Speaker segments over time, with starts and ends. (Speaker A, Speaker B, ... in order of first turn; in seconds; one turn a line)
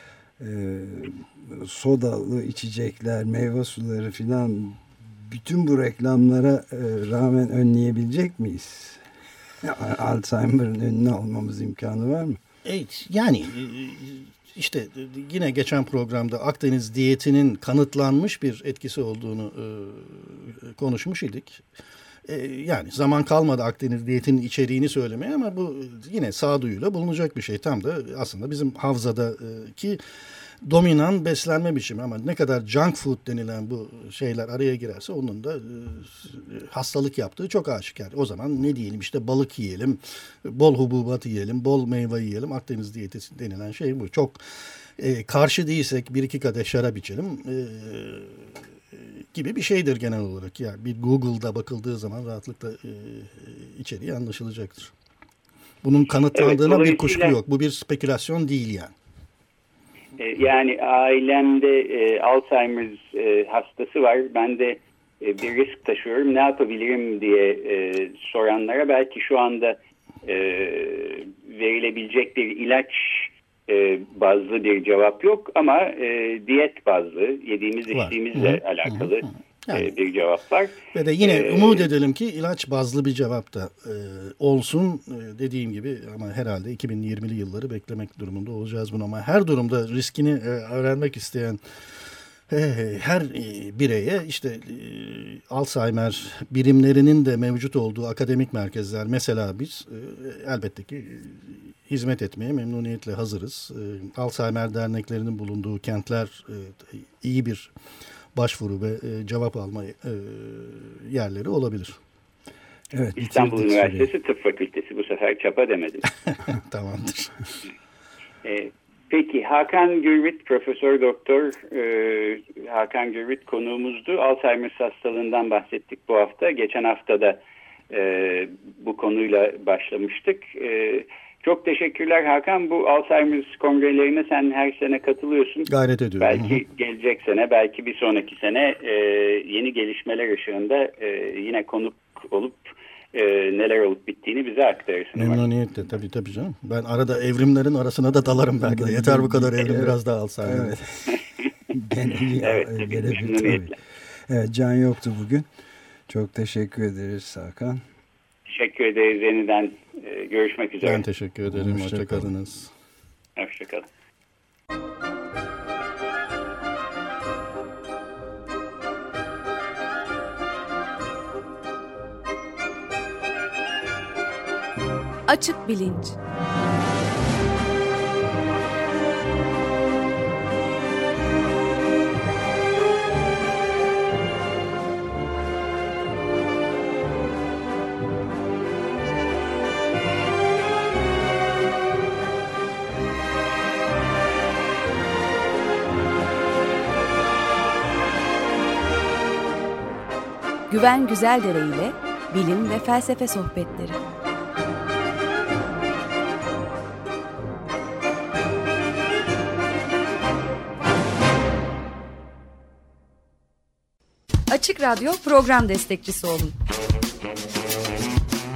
Speaker A: 0.4-9.0
Speaker A: 9.6-12.4
Speaker B: 12.6-21.6
Speaker B: 22.2-30.0
Speaker B: 30.6-44.4
Speaker B: 45.0-54.9
Speaker B: 55.8-58.9
Speaker C: 56.3-57.4
Speaker C: 60.2-81.9
Speaker B: 77.9-79.9
Speaker B: 80.9-91.6
Speaker B: 92.5-107.7
Speaker B: 108.3-112.0
Speaker A: 112.9-114.1
Speaker C: 113.2-116.1
Speaker B: 116.4-117.3
Speaker C: 118.4-145.4
Speaker B: 135.7-136.6
Speaker B: 145.1-150.8
Speaker A: 148.6-151.2
Speaker A: 151.7-153.8
Speaker C: 152.4-153.7
Speaker A: 154.3-155.4
Speaker A: 156.1-157.8
Speaker C: 158.5-161.0
Speaker B: 160.8-162.7
Speaker A: 161.5-162.3
Speaker C: 163.4-163.8
Speaker D: 175.3-176.2
Speaker D: 200.7-204.0
Speaker D: 214.5-216.5